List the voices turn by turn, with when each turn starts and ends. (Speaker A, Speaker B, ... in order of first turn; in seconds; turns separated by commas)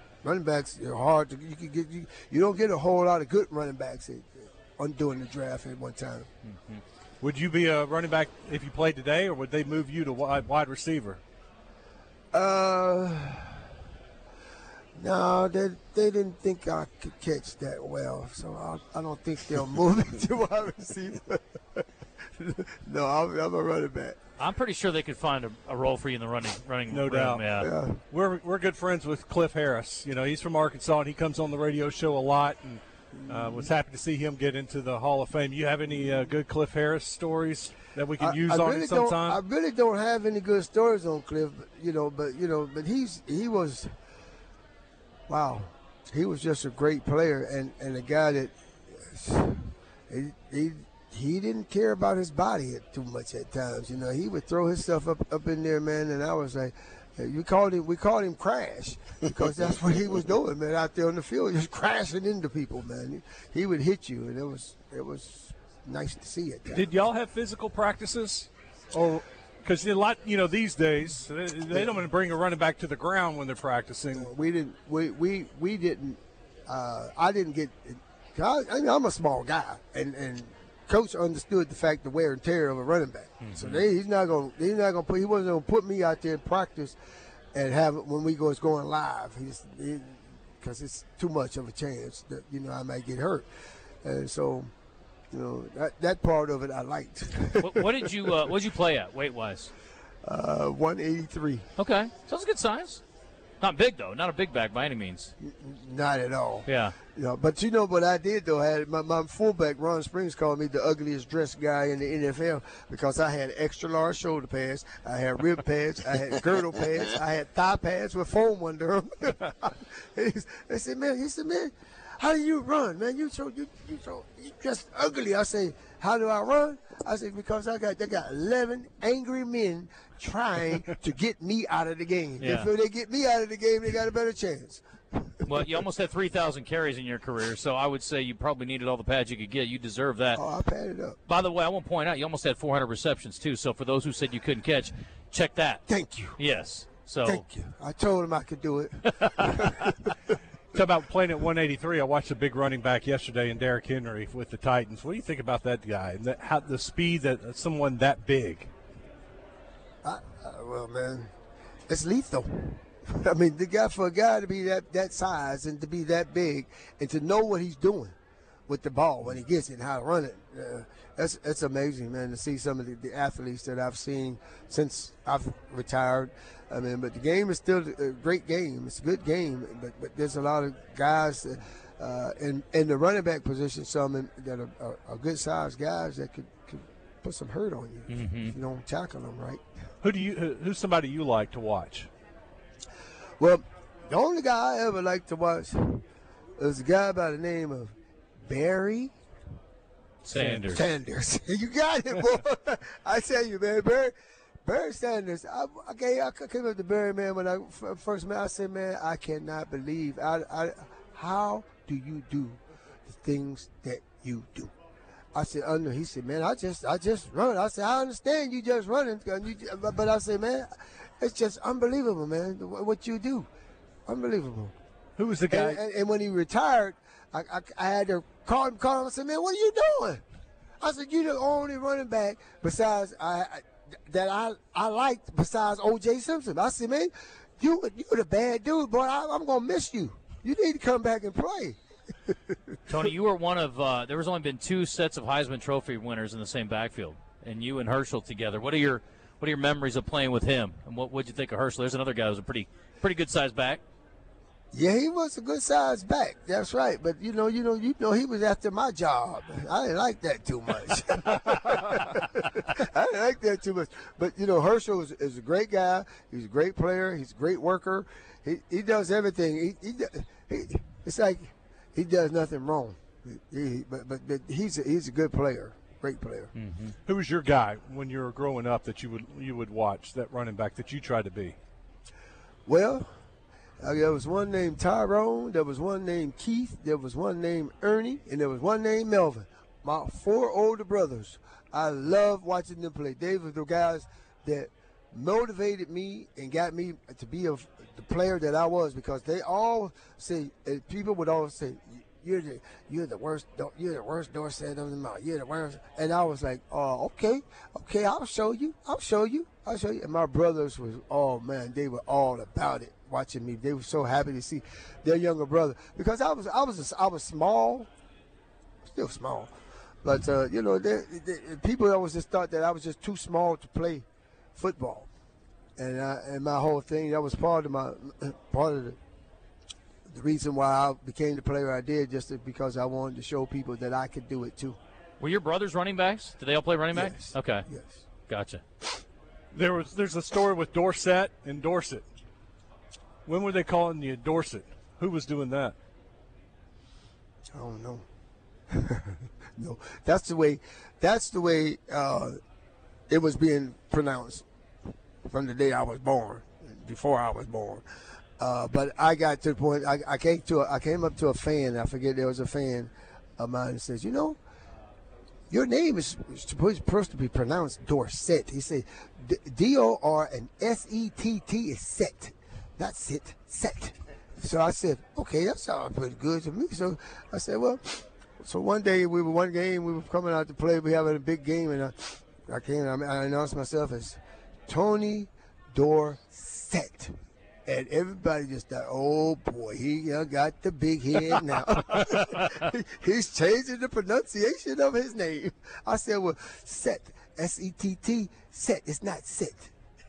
Speaker A: 0.2-6.3, Speaker B: 6.4-6.8, Speaker C: 7.2-11.2, Speaker A: 12.3-13.7, Speaker A: 15.0-24.2, Speaker B: 24.4-27.7, Speaker C: 26.9-27.5, Speaker A: 27.6-28.0, Speaker C: 28.1-39.4, Speaker A: 33.1-33.7, Speaker A: 38.2-43.9, Speaker A: 45.3-66.9, Speaker C: 66.7-74.3, Speaker A: 71.7-72.0, Speaker A: 74.1-87.0, Speaker B: 83.4-83.8, Speaker A: 87.5-93.4, Speaker A: 94.0-94.7, Speaker A: 95.3-98.3, Speaker B: 97.6-99.7, Speaker A: 100.2-101.7, Speaker B: 101.8-103.0, Speaker B: 103.6-105.3, Speaker A: 105.4-135.8, Speaker B: 106.7-107.0, Speaker B: 132.4-132.7, Speaker B: 135.4-140.4, Speaker A: 140.3-141.2, Speaker B: 141.2-145.8, Speaker A: 145.9-146.4, Speaker B: 146.3-147.4, Speaker A: 147.2-150.3, Speaker B: 149.2-149.5, Speaker C: 150.7-158.7, Speaker A: 160.0-161.3, Speaker A: 161.9-168.1, Speaker A: 168.7-189.6, Speaker B: 188.1-188.5, Speaker C: 190.0-192.1, Speaker A: 193.4-196.0, Speaker A: 196.6-197.9, Speaker A: 198.4-199.1, Speaker B: 200.2-200.9, Speaker C: 200.3-200.8, Speaker A: 200.7-204.1, Speaker A: 204.6-214.7, Speaker A: 215.3-223.5, Speaker A: 224.1-224.7, Speaker C: 225.2-225.8, Speaker A: 225.5-230.2, Speaker A: 230.8-243.0, Speaker B: 242.9-253.8, Speaker A: 254.7-276.5, Speaker B: 276.5-276.9, Speaker C: 277.1-281.6, Speaker A: 282.6-283.1, Speaker A: 283.8-317.9, Speaker A: 318.9-319.5, Speaker A: 320.0-324.0, Speaker A: 324.6-325.1, Speaker A: 325.8-329.0, Speaker A: 330.1-334.8, Speaker B: 335.2-337.6, Speaker A: 336.9-338.0, Speaker B: 338.3-338.6, Speaker C: 339.5-342.0, Speaker C: 343.2-345.7, Speaker A: 347.5-348.0, Speaker A: 348.7-352.4, Speaker A: 353.1-354.4, Speaker A: 355.2-357.8, Speaker A: 358.4-364.4, Speaker A: 365.5-387.1, Speaker A: 387.6-399.7